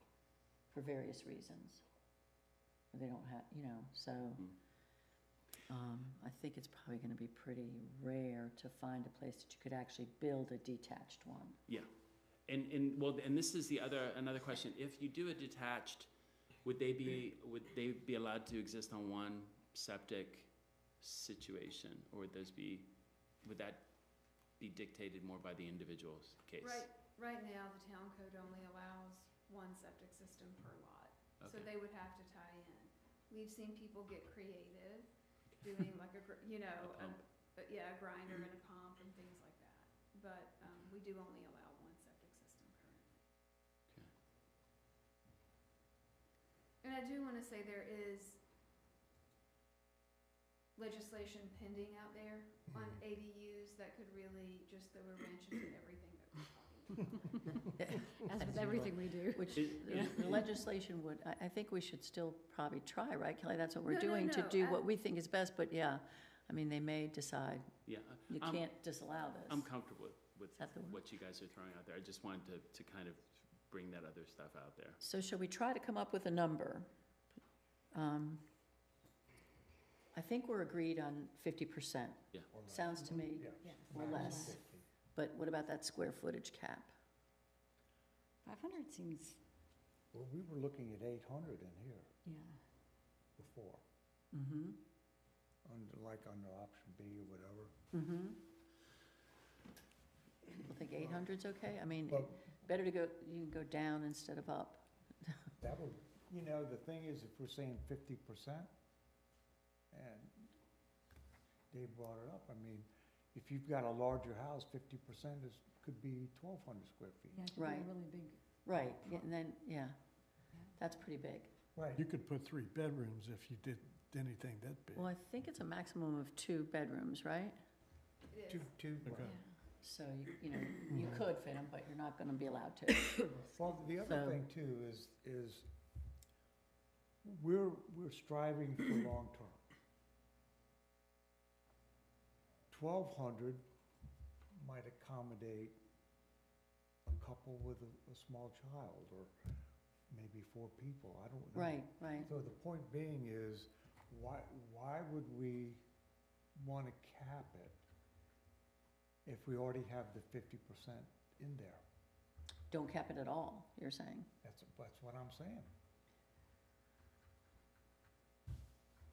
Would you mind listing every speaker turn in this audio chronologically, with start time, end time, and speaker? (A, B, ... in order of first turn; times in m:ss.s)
0:00.7-0:01.8 A
0:02.9-0:04.5 A
0:05.7-0:11.6 A
0:12.5-0:16.1 B
0:16.6-0:22.9 B
0:23.4-0:23.9 B
0:24.6-0:26.9 B
0:26.6-0:43.3 C
0:31.4-0:31.7 B
0:36.8-0:37.2 B
0:46.8-0:48.4 C
0:50.8-0:57.6 C
0:57.8-1:07.7 A
0:58.1-1:00.1 D
0:59.6-1:00.4 B
1:03.9-1:04.9 C
1:07.9-1:08.7 B
1:08.3-1:09.7 A
1:09.5-1:15.0 B
1:10.6-1:11.0 A
1:15.0-1:16.9 A
1:17.9-1:18.4 A
1:20.1-1:24.6 A
1:22.5-1:24.9 E
1:23.6-1:24.5 D
1:25.1-1:26.9 A
1:28.4-1:29.4 D
1:30.1-1:32.1 E
1:32.2-1:32.6 D
1:33.4-1:33.8 E
1:34.3-1:34.8 A
1:35.6-1:37.7 E
1:37.9-1:38.4 A
1:40.6-1:45.4 A
1:41.0-1:41.2 E
1:42.1-1:42.4 E
1:45.6-1:48.7 E
1:49.9-1:50.5 E
1:51.7-1:57.5 E
1:57.3-1:58.4 D
1:57.6-1:57.9 A
1:58.6-2:00.0 A
2:00.7-2:01.5 A
2:01.8-2:02.1 E
2:02.0-2:05.1 F
2:05.0-2:07.6 A
2:08.3-2:08.7 C
2:08.5-2:09.4 E
2:09.0-2:09.4 F
2:09.8-2:13.3 A
2:13.4-2:15.7 E
2:14.0-2:14.4 A
2:17.2-2:19.6 E
2:22.7-2:23.6 E
2:24.6-2:25.8 E
2:27.1-2:29.3 E
2:30.1-2:35.8 E
2:31.5-2:32.3 A
2:36.6-2:37.8 E
2:39.3-2:41.8 E
2:42.7-2:44.3 A
2:44.4-2:45.7 E